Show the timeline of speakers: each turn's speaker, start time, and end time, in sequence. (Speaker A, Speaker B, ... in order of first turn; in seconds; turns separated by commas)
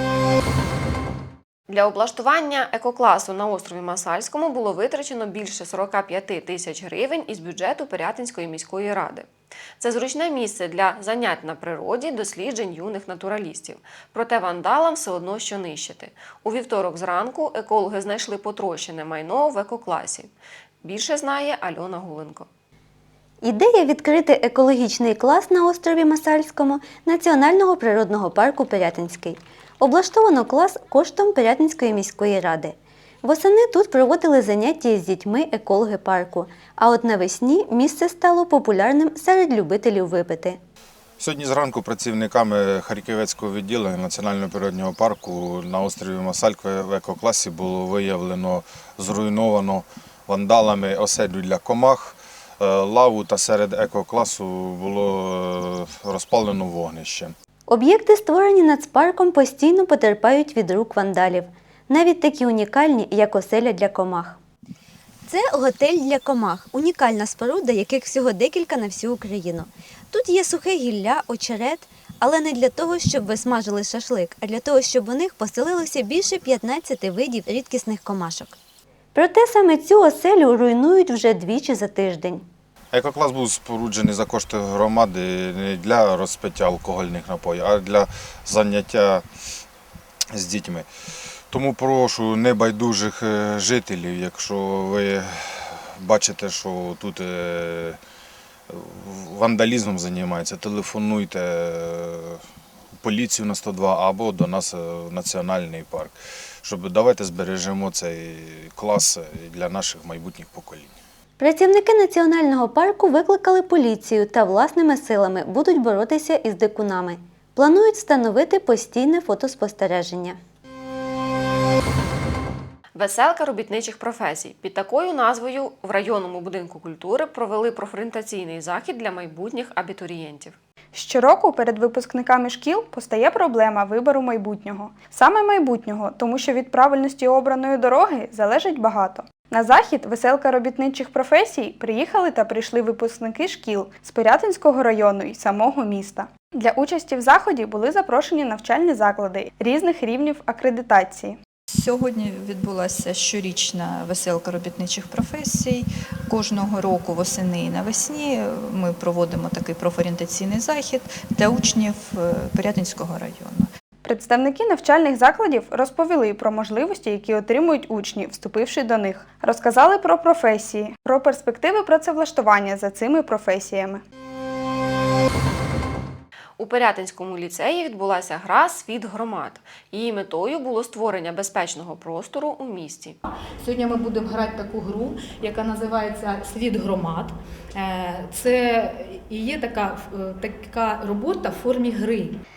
Speaker A: 1.7-22.5, Speaker B: 23.4-40.6, Speaker C: 41.2-57.3, Speaker B: 57.7-64.4, Speaker B: 65.3-78.6, Speaker B: 79.1-82.5, Speaker C: 82.9-89.2, Speaker C: 90.3-90.9, Speaker C: 91.5-98.0, Speaker C: 98.7-102.4, Speaker C: 103.0-111.0, Speaker B: 111.4-120.4, Speaker A: 123.0-130.6, Speaker D: 130.9-151.4, Speaker E: 151.7-163.7, Speaker D: 164.0-174.0, Speaker A: 176.6-183.2, Speaker F: 183.6-192.4